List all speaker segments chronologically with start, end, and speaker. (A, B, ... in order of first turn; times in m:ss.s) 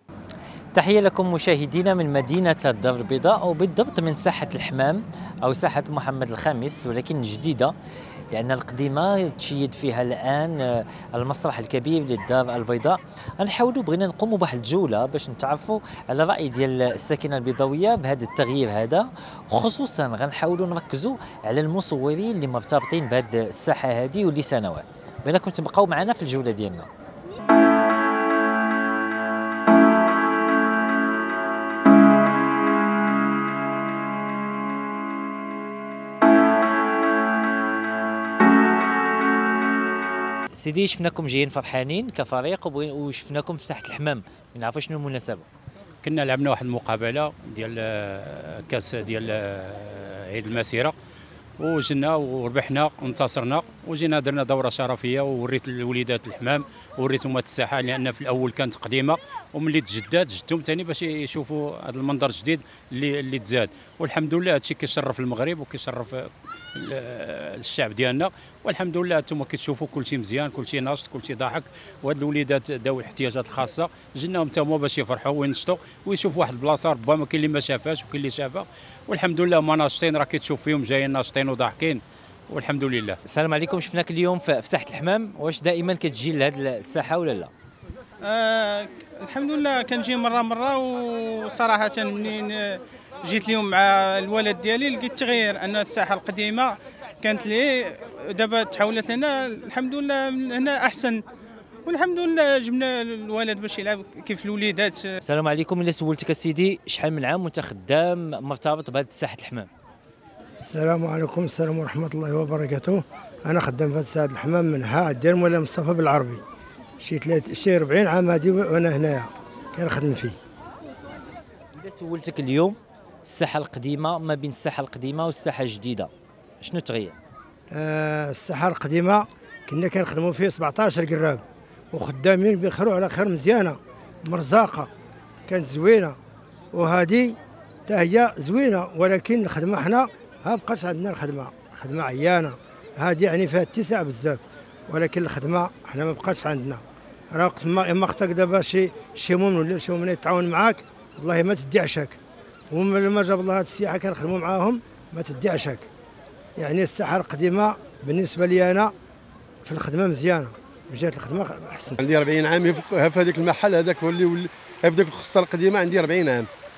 0:00.7-0:07.7 A
0:08.3-0:26.9 A
0:40.6-0:45.4 A
0:46.0-0:50.9 B
0:51.6-1:23.2 B
1:23.2-1:27.5 A
1:28.2-1:41.2 C
1:41.8-1:45.1 C
1:45.2-1:49.7 A
1:50.6-1:56.4 D
1:57.0-2:00.4 D
2:01.7-2:07.2 A
2:07.7-2:11.4 D
2:11.9-2:14.9 D
2:15.5-2:16.2 D
2:16.7-2:26.8 D
2:27.3-2:32.2 D
2:32.7-2:35.9 D
2:36.6-2:38.9 D
2:39.6-2:42.0 D
2:42.0-2:46.5 E